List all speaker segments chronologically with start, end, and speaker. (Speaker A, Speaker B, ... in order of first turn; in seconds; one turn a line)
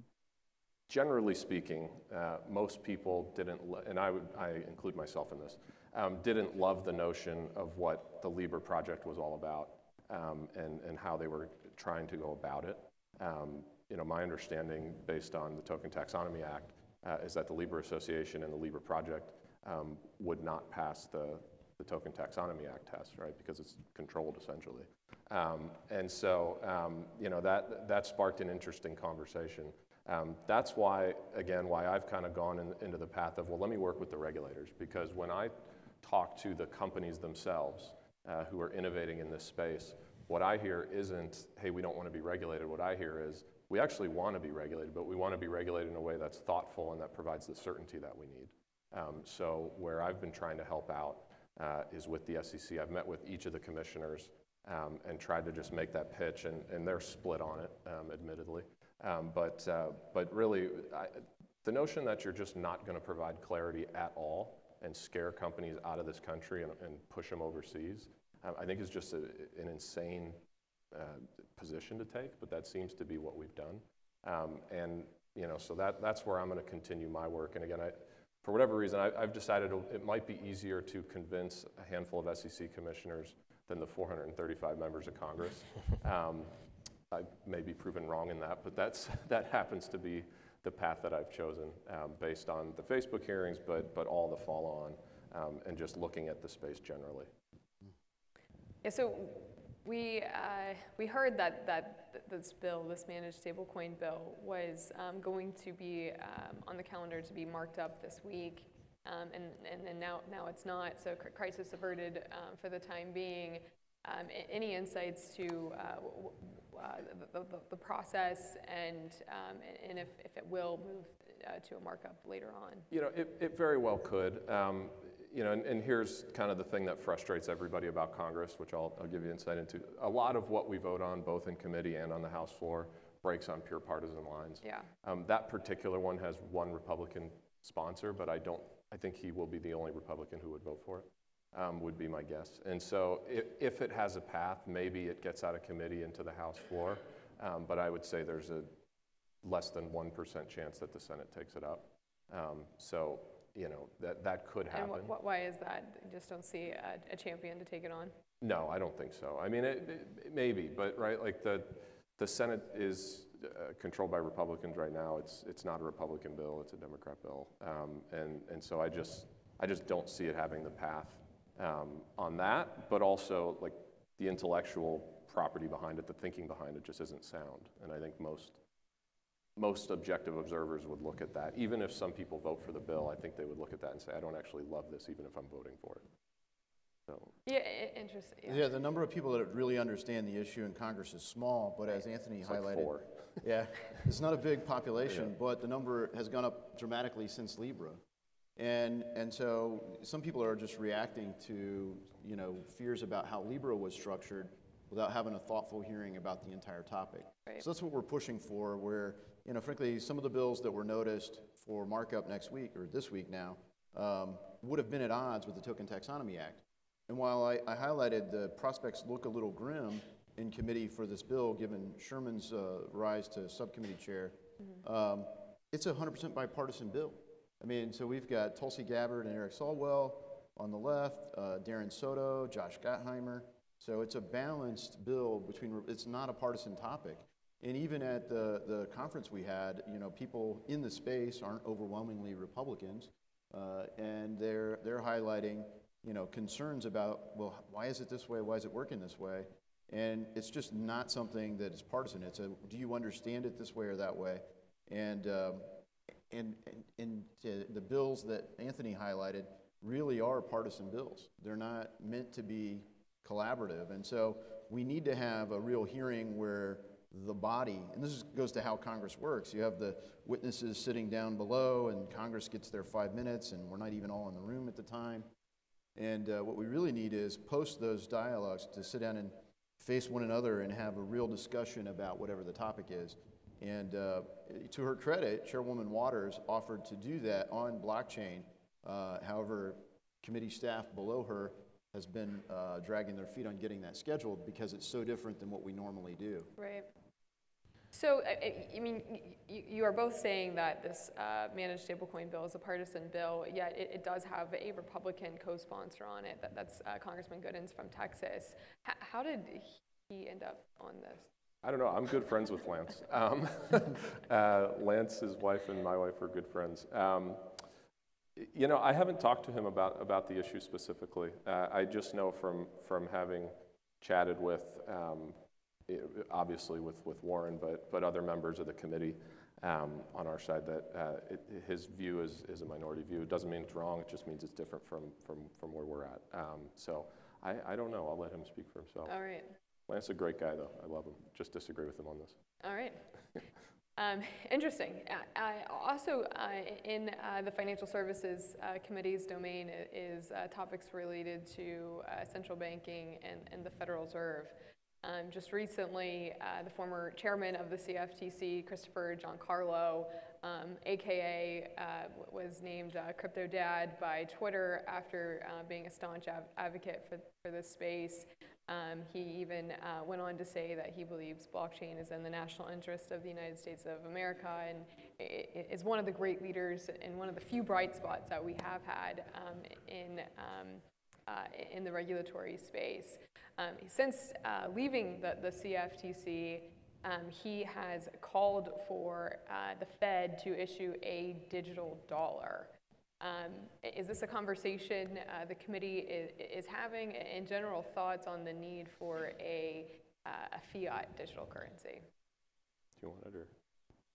Speaker A: 0.9-86.5
Speaker A: 87.1-97.3
Speaker B: 98.8-122.9
Speaker A: 122.9-148.7
Speaker B: 134.6-134.9
Speaker A: 149.4-155.1
Speaker B: 154.7-158.1
Speaker A: 158.4-178.6
Speaker A: 179.6-186.1
Speaker A: 187.1-187.3
Speaker B: 187.4-188.6
Speaker C: 188.5-198.0
Speaker A: 192.4-193.1
Speaker C: 198.6-255.8
Speaker C: 256.3-275.3
Speaker C: 276.0-296.5
Speaker B: 296.6-296.9
Speaker B: 297.9-311.3
Speaker A: 311.6-317.5
Speaker A: 318.4-339.2
Speaker B: 339.1-339.5
Speaker A: 339.9-342.4
Speaker B: 342.6-343.1
Speaker B: 344.0-402.1
Speaker A: 403.0-403.5